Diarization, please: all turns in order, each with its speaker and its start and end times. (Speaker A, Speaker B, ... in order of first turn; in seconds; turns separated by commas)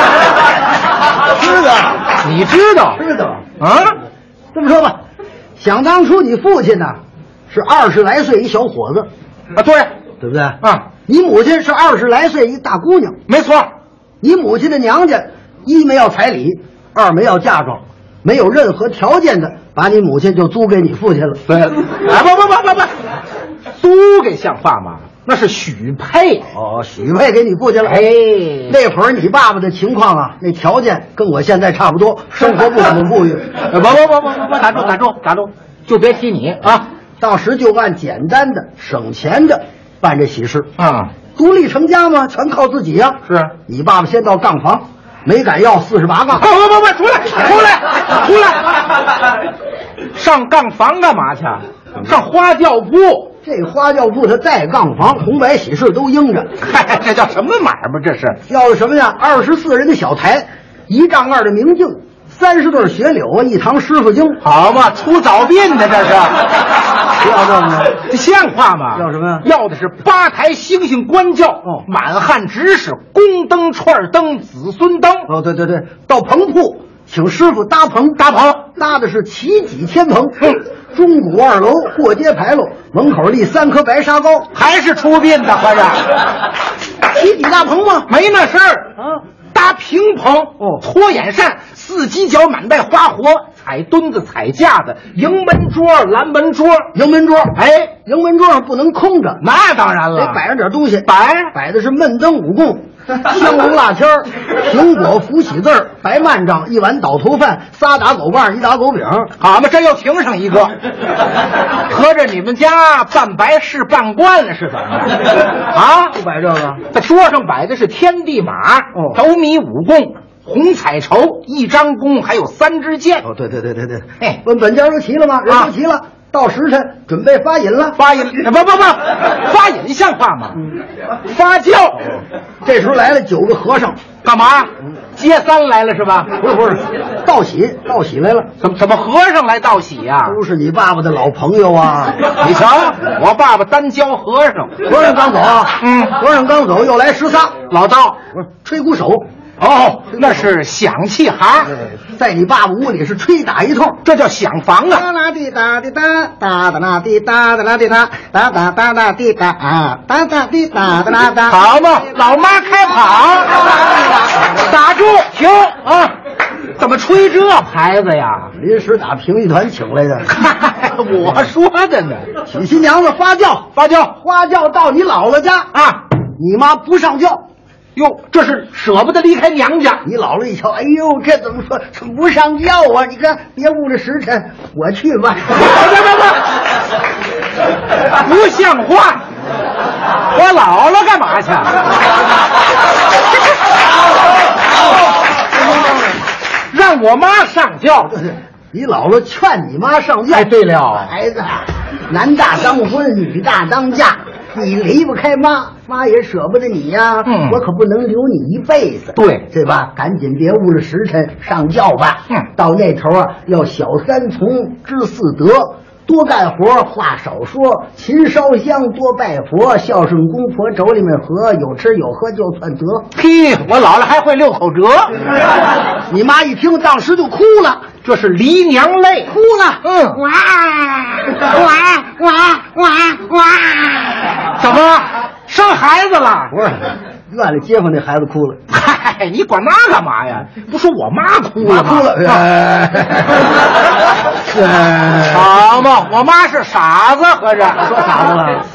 Speaker A: 1.2-2.1, Speaker B: 2.2-3.0, Speaker A: 3.0-3.4, Speaker B: 3.6-4.0, Speaker A: 4.5-5.0, Speaker A: 5.6-7.0, Speaker A: 7.5-9.1, Speaker B: 9.5-9.9, Speaker A: 10.2-13.2, Speaker B: 10.6-10.9, Speaker B: 13.3-13.7, Speaker A: 14.2-21.4, Speaker B: 21.5-22.9, Speaker B: 23.7-26.5, Speaker A: 26.5-28.0, Speaker B: 27.8-28.8, Speaker A: 28.7-33.5, Speaker B: 33.6-36.9, Speaker A: 37.2-40.7, Speaker B: 40.8-41.1, Speaker A: 41.3-46.5, Speaker B: 43.2-43.5, Speaker B: 46.4-48.8, Speaker B: 50.1-53.3, Speaker A: 53.4-56.5, Speaker B: 56.6-58.4, Speaker A: 58.5-64.4, Speaker B: 64.4-66.5, Speaker A: 67.2-68.0, Speaker B: 68.0-75.3, Speaker A: 68.9-69.5, Speaker A: 75.3-84.5, Speaker B: 78.2-78.6, Speaker B: 84.5-86.1, Speaker A: 87.1-88.1, Speaker B: 88.1-88.9, Speaker B: 89.5-96.9, Speaker A: 96.9-99.4, Speaker B: 97.5-97.9, Speaker B: 99.4-100.4, Speaker A: 100.1-109.3, Speaker B: 101.0-101.5, Speaker B: 109.4-110.7, Speaker B: 111.8-116.2, Speaker A: 116.1-116.8, Speaker B: 116.9-123.2, Speaker A: 118.9-119.2, Speaker A: 123.2-128.0, Speaker B: 128.0-130.7, Speaker B: 131.2-132.0, Speaker A: 132.6-134.0, Speaker B: 134.2-136.3, Speaker A: 136.4-138.5, Speaker B: 138.6-140.4, Speaker A: 140.2-142.2, Speaker B: 142.3-144.8, Speaker A: 144.8-147.6, Speaker B: 145.8-146.1, Speaker B: 147.7-148.2, Speaker A: 148.3-149.2, Speaker B: 149.6-151.7, Speaker A: 150.1-150.4, Speaker A: 151.7-154.0, Speaker B: 154.0-155.1, Speaker A: 154.9-161.6, Speaker B: 161.4-163.8, Speaker A: 163.7-164.2, Speaker B: 164.4-166.1, Speaker B: 166.8-168.5, Speaker A: 168.5-170.3, Speaker B: 170.3-172.3, Speaker A: 172.4-175.8, Speaker B: 173.7-174.1, Speaker B: 175.7-176.0, Speaker A: 176.3-177.4, Speaker B: 177.9-180.0, Speaker A: 180.0-185.7, Speaker B: 185.6-186.4, Speaker B: 188.2-189.2, Speaker B: 190.3-191.8, Speaker B: 196.7-198.1, Speaker A: 198.1-223.1, Speaker B: 200.3-201.1, Speaker B: 207.2-207.6, Speaker B: 209.2-209.4, Speaker B: 223.1-225.1, Speaker A: 226.1-227.8, Speaker B: 228.0-229.3, Speaker A: 229.3-234.5, Speaker B: 229.8-230.2, Speaker B: 234.5-236.5, Speaker A: 236.5-238.6, Speaker B: 238.7-242.5, Speaker A: 241.6-243.4, Speaker A: 244.6-245.2, Speaker B: 245.2-247.9, Speaker A: 247.8-248.6